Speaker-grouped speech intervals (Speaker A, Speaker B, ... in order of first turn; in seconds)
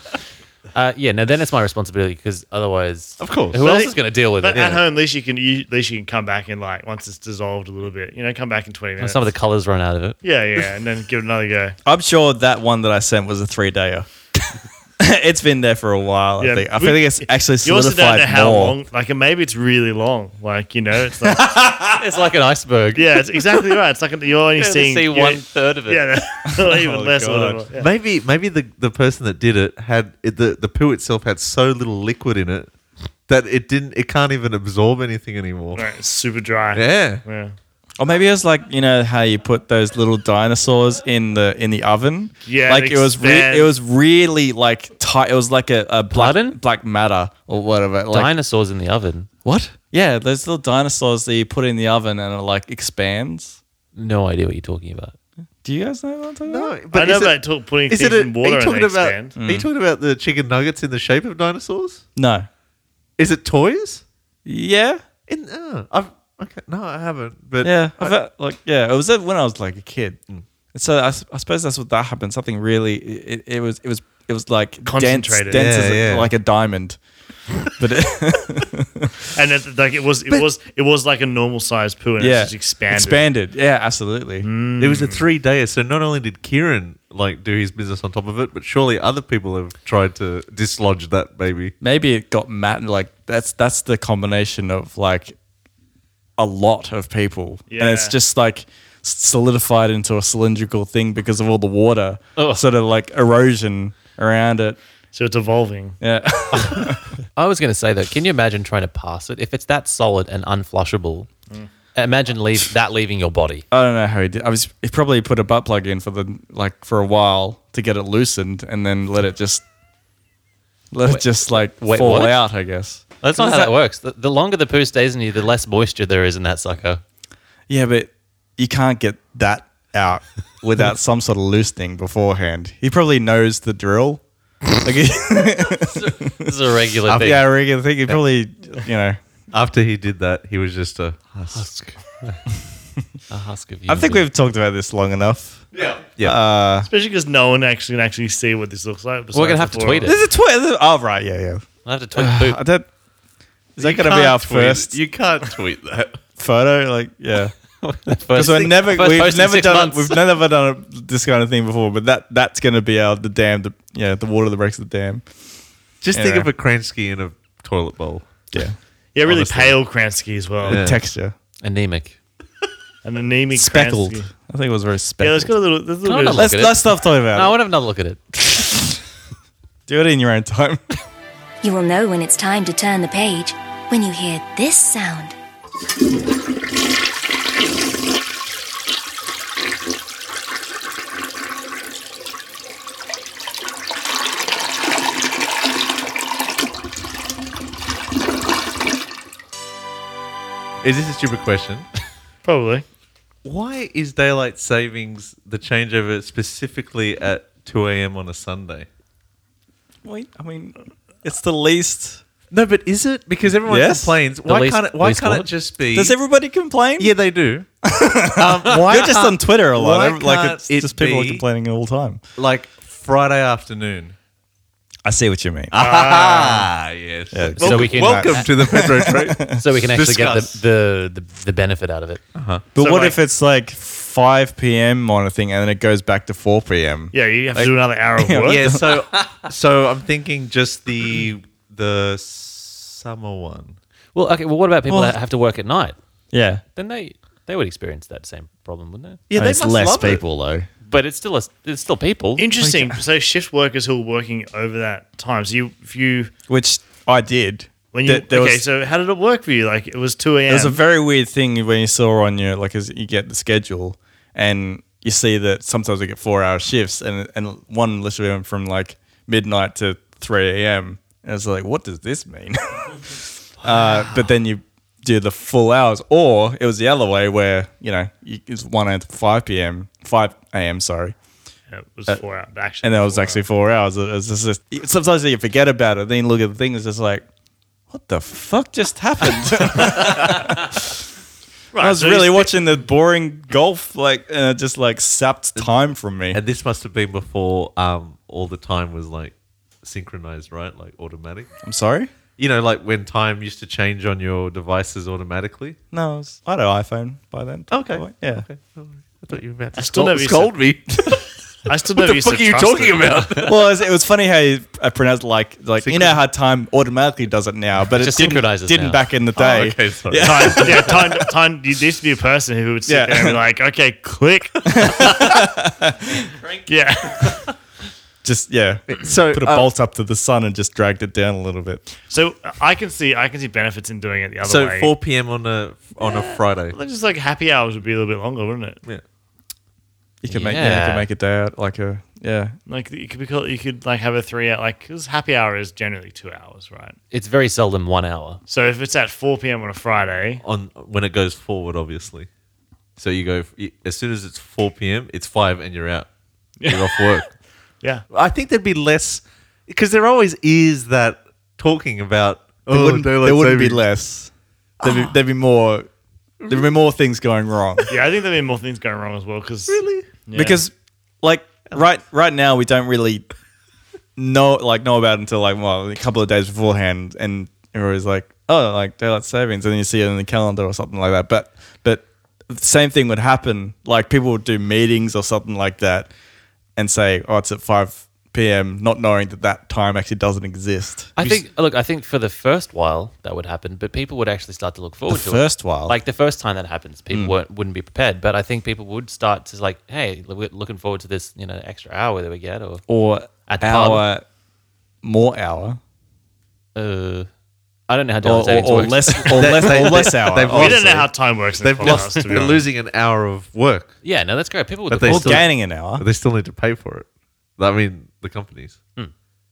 Speaker A: 0.8-4.7, 9.0-10.2, 21.9-23.0, 24.6-26.2, 46.1-46.6, 48.1-49.3, 54.0-55.1, 102.4-102.6, 107.4-111.3, 112.0-113.7, 121.0-122.4, 123.2-127.0, 135.9-137.4, 141.5-142.4, 143.3-144.2, 149.3-150.2, 151.8-152.6, 157.8-160.2, 171.6-172.2, 176.1-178.2, 214.5-215.5, 227.6-228.5, 229.5-232.2, 244.2-246.0, 246.8-249.2, 250.9-252.5, 317.9-319.1, 340.3-341.1, 347.1-348.4, 391.2-402.8, 403.5-404.1, 406.8-407.3, 407.9-410.0, 414.0-415.4
Speaker B: 3.2-3.8, 4.5-4.8, 27.7-32.7, 33.3-35.9, 36.7-37.2, 56.5-62.0, 63.2-64.0, 65.3-68.2, 75.5-76.3, 84.8-91.7, 137.1-137.4, 139.5-141.7, 145.7-146.4, 153.8-156.2, 166.0-168.2, 169.2-169.8, 170.6-171.0, 200.8-201.9, 203.4-208.9, 212.5-216.2, 217.0-217.7, 218.3-221.4, 222.4-224.2, 225.7-230.6, 232.3-232.7, 238.5-243.8, 249.3-250.2, 296.3-301.5, 302.4-305.8, 307.7-311.2, 311.9-313.6, 315.8-316.2, 319.4-321.1, 328.9-329.7, 334.4-336.8, 350.4-352.3, 353.0-356.1, 356.6-357.3, 358.1-363.8, 364.8-365.1, 366.4-366.7, 369.7-370.1, 409.3-413.9, 414.9-417.1, 417.6-418.8
Speaker C: 3.6-9.2, 10.2-11.8, 16.4-21.5, 22.9-27.9, 35.8-37.5, 42.5-43.7, 56.9-59.4, 74.8-75.7, 79.3-83.2, 84.4-85.2, 97.7-98.2, 105.1-106.0, 146.8-150.1, 169.2-170.8, 173.0-174.3, 175.2-176.5, 202.4-202.8, 225.8-226.7, 232.8-233.2, 237.1-238.6, 252.4-256.3, 257.9-260.8, 281.7-283.4, 291.7-292.5, 309.8-310.6, 311.7-313.3, 320.2-325.4, 326.7-327.5, 332.1-334.9, 336.0-338.8, 342.7-347.0, 348.5-350.4, 356.6-357.2, 367.9-370.6, 410.5-412.7
Speaker D: 11.8-18.8, 21.3-21.9, 26.5-27.6, 38.0-48.3, 49.5-53.6, 55.6-56.8, 59.4-59.7, 62.2-62.5, 64.5-65.0, 67.6-70.2, 70.7-77.0, 77.8-79.2, 82.2-84.5, 91.8-95.4, 96.4-104.8, 106.0-107.0, 113.7-119.6, 120.9-123.7, 127.7-134.2, 134.8-136.5, 137.2-139.2, 143.9-145.7, 146.2-146.9, 150.1-152.9, 153.8-155.0, 156.4-157.5, 158.3-165.2, 166.1-166.5, 170.7-171.3, 173.5-175.5, 176.3-177.6, 179.9-180.9, 210.0-212.2, 213.7-214.2, 215.9-217.1, 217.8-222.2, 225.1-225.7, 227.3-229.6, 232.8-239.0, 244.9-245.2, 246.3-246.6, 249.3-250.7, 252.6-253.0, 256.5-258.6, 260.5-281.2, 282.8-287.2, 287.9-291.0, 291.8-296.4, 301.6-302.1, 305.9-308.5, 313.4-321.2, 322.9-323.4, 324.7-326.1, 328.2-331.8, 340.2-342.6, 362.7-365.9, 366.5-367.9, 370.3-373.3, 374.2-386.1, 386.8-391.2, 395.1-395.9, 402.9-404.2, 405.0-405.8, 408.2-410.9, 415.1-416.0
Speaker E: 181.6-185.3